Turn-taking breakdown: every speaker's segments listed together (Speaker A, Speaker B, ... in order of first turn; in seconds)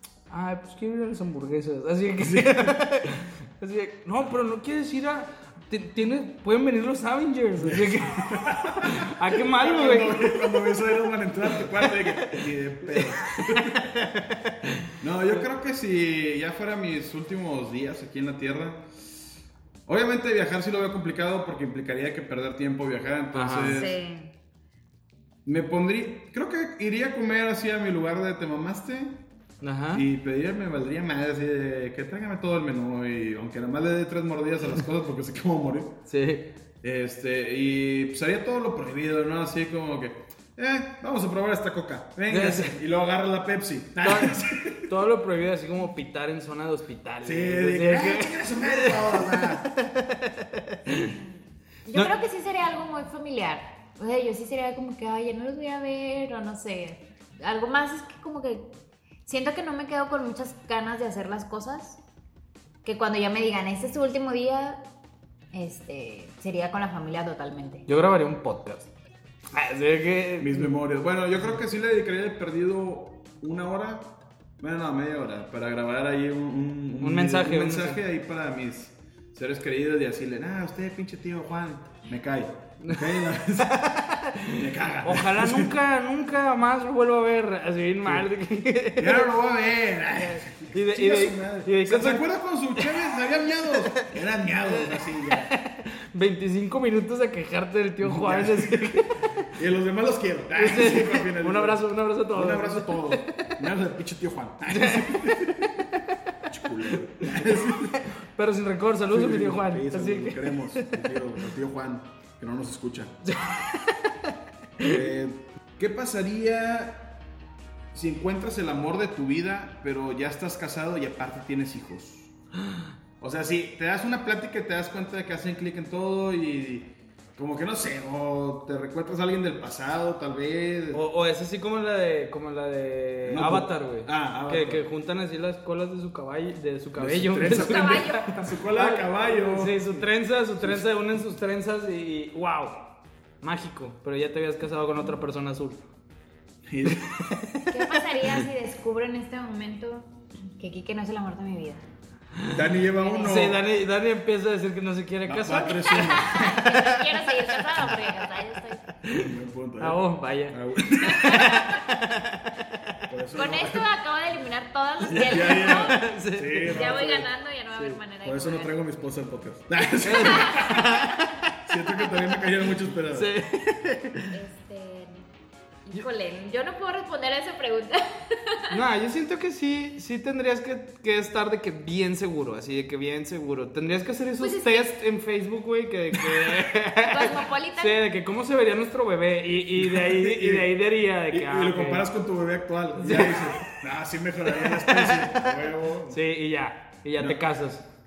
Speaker A: 0.3-10.7, 12.2-12.4, 13.5-14.8, 23.3-23.8, 29.6-30.0, 36.1-36.5, 42.3-42.7, 44.0-51.1, 67.9-68.9, 69.5-70.7, 77.0-78.0, 82.8-89.3, 90.2-93.0, 94.7-99.5, 100.5-103.5, 104.7-106.0, 107.6-110.9, 113.2-114.3, 122.6-122.9, 130.9-142.9, 143.4-145.8, 146.8-148.4, 152.4-152.7, 153.2-157.3, 159.0-162.9, 165.1-167.2, 170.0-172.1, 173.1-174.3, 178.7-192.0, 193.0-193.6, 194.5-195.5, 196.1-197.8
Speaker B: 2.2-3.1, 7.6-13.8, 15.0-19.0, 19.9-24.0, 25.4-29.2, 29.9-36.0, 36.8-44.9, 47.2-49.7, 70.4-83.9, 84.5-85.7, 89.0-95.5, 98.0-99.0, 99.5-105.7, 106.5-108.1, 109.1-113.2, 114.8-117.2, 117.9-122.3, 123.2-131.0, 133.2-134.8, 137.0-140.9, 146.6-147.2, 152.5-153.6, 155.2-156.6, 159.1-161.6, 163.1-163.9, 165.1-167.3, 168.2-170.9, 171.6-173.3, 189.8-190.7, 191.3-196.2
Speaker C: 23.6-24.3, 51.8-58.7, 59.2-62.0, 62.8-64.8, 65.5-67.9, 137.4-138.3, 147.7-151.8, 152.9-153.4, 155.9-158.8, 161.1-161.8, 163.3-166.1, 166.6-168.7, 170.2-170.9, 174.3-175.3, 175.8-178.8, 184.4-184.9, 186.9-188.0